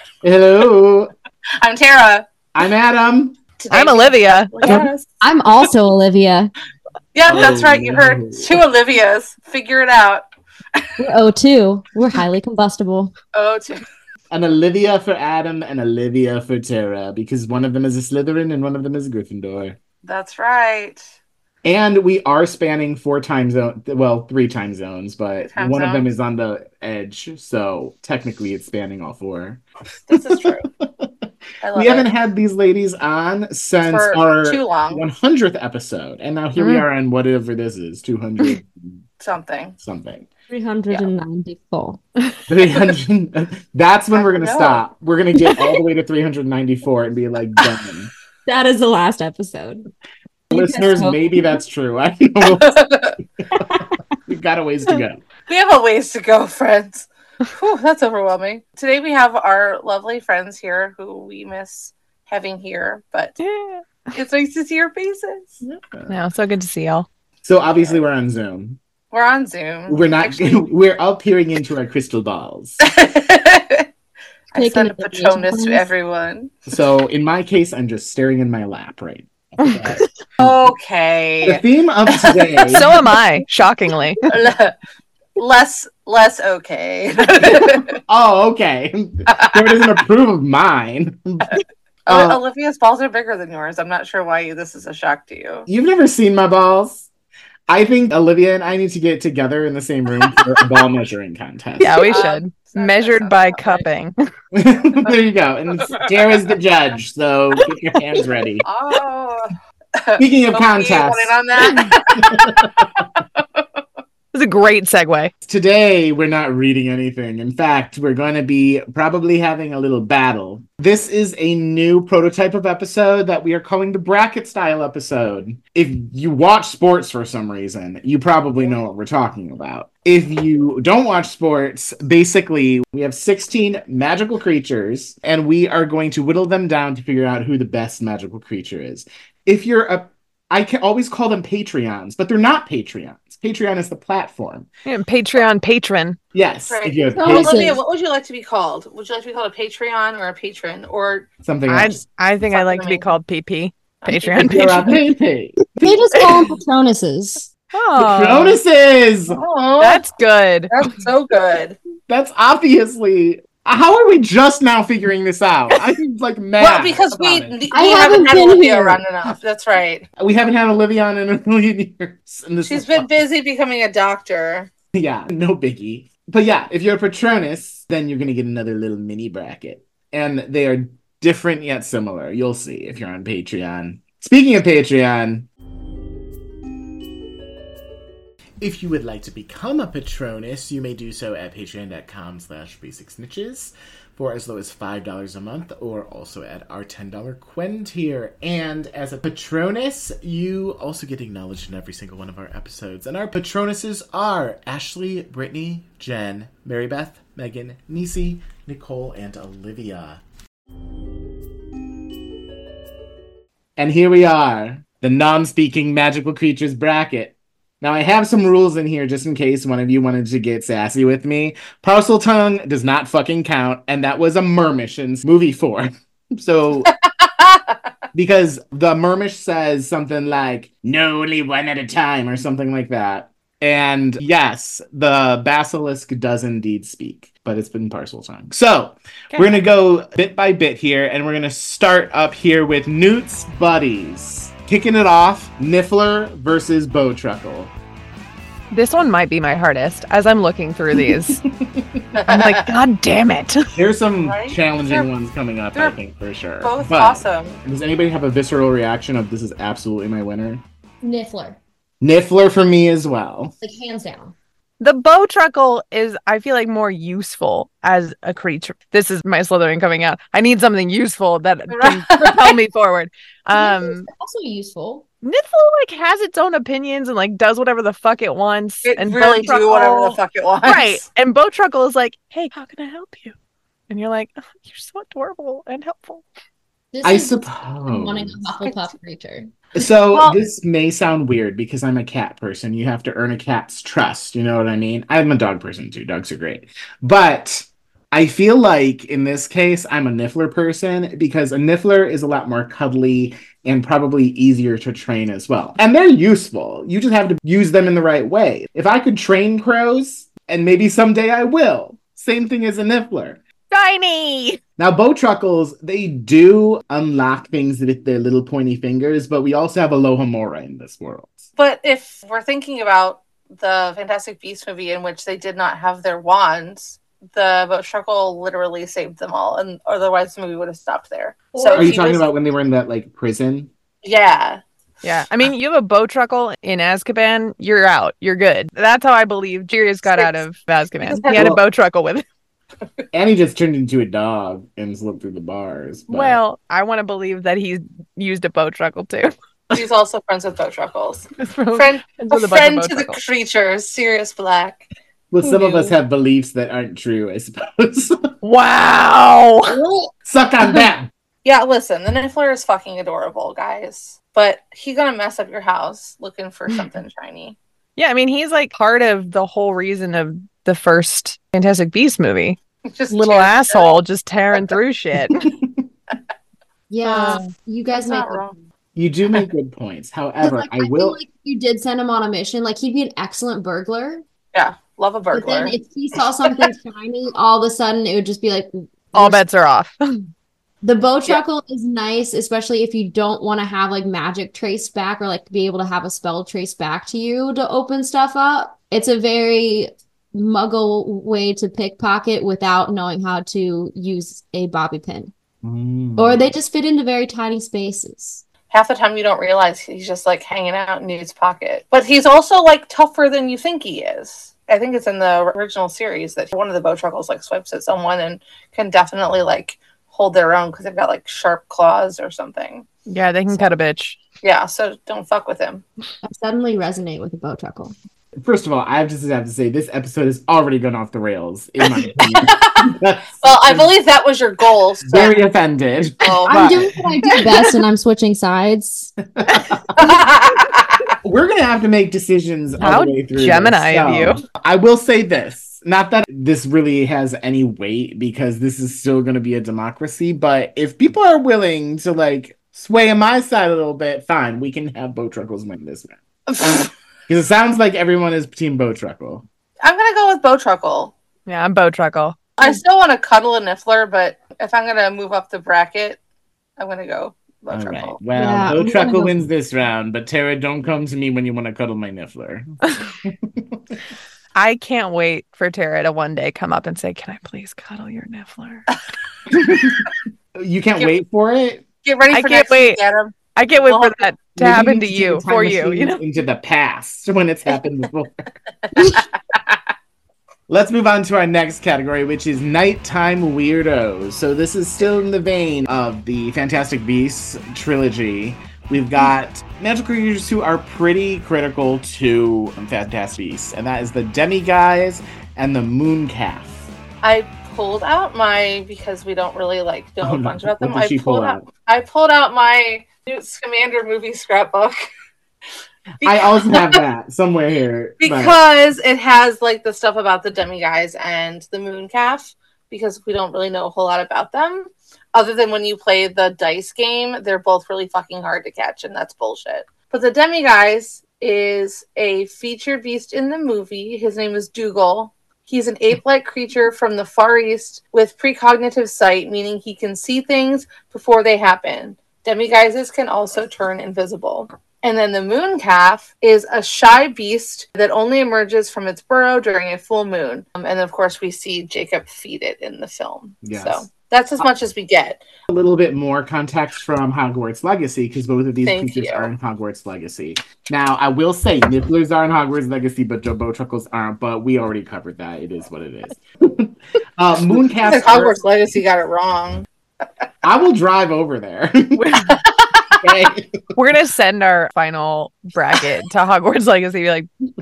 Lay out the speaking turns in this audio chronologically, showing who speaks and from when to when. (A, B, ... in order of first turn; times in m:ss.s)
0:00.2-0:01.1 A
0:01.6-0:02.3 B
0:02.5-0:03.4 A
0:03.6-0:05.1 B
0:03.7-0:04.5 C
0:04.6-0:04.9 A
0:04.7-0:06.5 D
0:07.1-0:10.9 B
0:07.3-0:08.6 A
0:11.0-0:13.1 D
0:13.3-0:13.8 B
0:14.3-0:19.8 A
0:20.0-0:21.0 B
0:21.6-0:29.6 A
0:25.5-0:26.1 B
0:30.1-0:30.7 B
0:30.2-0:31.1 A
0:31.6-0:32.1 B
0:31.7-0:39.0 A
0:33.8-0:35.0 B
0:36.6-0:36.9 C
0:39.2-0:39.8 B
0:39.8-0:40.3 A
0:40.5-0:42.0 D
0:42.5-0:48.1 A
0:44.2-0:44.8 B
0:48.5-0:49.9 D
0:50.5-0:51.5 D
0:50.5-0:52.8 A
0:52.5-0:53.2 B
0:53.4-0:55.2 A
0:53.6-0:53.9 D
0:55.5-1:03.4 B
1:03.4-1:04.2 C
1:04.2-1:05.6 B
1:05.8-1:06.2 A
1:06.1-1:07.1 C
1:07.4-1:08.8 A
1:07.8-1:08.0 B
1:09.1-1:10.7 B
1:09.9-1:12.8 A
1:12.8-1:13.9 B
1:14.5-1:16.5 B
1:14.5-1:15.9 D
1:16.7-1:20.7 A
1:20.4-1:23.0 B
1:21.4-1:22.9 A
1:22.6-1:24.2 C
1:24.3-1:24.8 B
1:25.4-1:28.0 B
1:27.4-1:32.4 A
1:32.1-1:35.7 B
1:35.7-1:37.1 A
1:37.7-1:42.2 A
1:41.8-1:44.2 C
1:42.0-1:43.8 B
1:44.5-1:48.7 A
1:48.4-1:53.6 B
1:50.2-1:53.0 A
1:51.6-1:51.9 C
1:54.3-1:55.3 C
1:55.4-2:24.7 A
2:24.9-2:26.2 C
2:26.3-2:27.7 A
2:26.7-2:31.3 B
2:27.1-2:27.8 D
2:31.4-2:32.0 A
2:31.7-2:35.0 C
2:32.5-2:33.0 B
2:34.0-2:34.9 B
2:34.4-2:36.1 A
2:35.8-2:37.5 D
2:37.7-2:38.6 C
2:38.0-2:39.4 A
2:39.3-2:40.0 B
2:39.8-2:40.9 C
2:40.7-2:41.8 B
2:42.1-2:47.6 A
2:46.6-2:50.1 B
2:47.7-2:49.0 D
2:50.2-2:53.1 A
2:52.6-2:54.7 B
2:54.9-3:05.5 A
3:08.6-3:30.2 A
3:33.8-3:46.9 A
3:46.9-3:47.6 B
3:48.1-4:07.7 A
3:59.3-3:59.6 C
4:08.7-4:11.4 C
4:11.0-4:12.1 A
4:12.1-4:12.7 B
4:12.3-4:13.7 C
4:13.7-4:20.6 A
4:14.3-4:15.1 B
4:16.6-4:17.6 B
4:21.0-4:21.6 D
4:22.0-4:23.5 A
4:23.6-4:24.3 D
4:24.8-4:34.1 C
4:31.7-4:32.6 B
4:33.6-4:35.0 D
4:35.2-4:43.4 C
4:38.9-4:41.0 B
4:43.9-4:46.2 C
4:46.9-4:49.5 D
4:47.0-4:48.4 A
4:49.8-5:13.4 A
4:50.1-4:50.4 B
5:13.7-5:14.6 C
5:14.8-5:21.5 A
5:21.6-5:32.2 B
5:31.5-5:32.1 D
5:31.8-5:33.7 A
5:34.0-5:34.6 B
5:35.0-5:42.2 C
5:40.1-5:40.4 B
5:41.0-5:41.6 B
5:41.3-5:41.6 A
5:43.1-5:46.4 A
5:46.1-5:49.3 C
5:49.7-5:54.8 B
5:51.4-5:53.2 C
5:55.3-5:58.3 A
5:55.4-5:55.9 C
5:58.4-5:59.8 C
6:00.2-6:01.1 A
6:01.4-6:07.6 B
6:08.0-6:12.6 C
6:12.9-6:14.0 B
6:13.1-6:15.5 C
6:16.9-6:18.5 D
6:17.1-6:17.5 C
6:17.9-6:18.6 B
6:19.0-6:21.2 A
6:20.4-6:24.2 D
6:24.5-6:25.8 B
6:25.3-6:29.4 D
6:29.1-6:30.3 C
6:30.8-6:45.3 D
6:45.6-6:46.5 A
6:46.2-6:48.4 D
6:48.7-7:02.9 B
7:03.1-7:04.2 C
7:04.4-7:05.8 B
7:06.2-7:07.9 D
7:08.4-7:13.9 A
7:11.9-7:15.4 B
7:15.0-7:17.0 A
7:16.2-7:17.6 B
7:16.5-7:19.2 D
7:19.4-7:19.8 A
7:20.0-7:21.1 B
7:21.2-7:36.2 A
7:22.8-7:24.4 C
7:36.5-7:36.9 B
7:37.3-7:39.4 A
7:39.8-7:41.1 B
7:41.5-7:42.6 C
7:42.6-7:46.2 B
7:46.8-7:48.2 B
7:47.7-7:52.7 A
7:48.4-7:49.4 D
7:52.9-7:53.1 C
7:53.2-7:53.8 A
7:54.6-7:58.9 C
7:59.5-8:01.9 A
8:02.0-8:04.2 B
8:02.3-8:03.0 C
8:03.6-8:06.2 C
8:04.6-8:08.4 A
8:08.9-8:09.3 B
8:10.7-8:26.9 A
8:27.2-8:35.0 B
8:30.2-8:31.6 A
8:36.2-8:37.0 B
8:36.2-8:38.6 A
8:38.2-9:15.4 B
9:13.6-9:14.1 A
9:15.7-9:28.6 A
9:18.9-9:19.5 B
9:28.0-9:29.9 B
9:30.6-9:32.5 A
9:32.2-9:32.6 C
9:32.5-9:33.3 B
9:33.2-9:33.8 A
9:33.9-9:37.5 C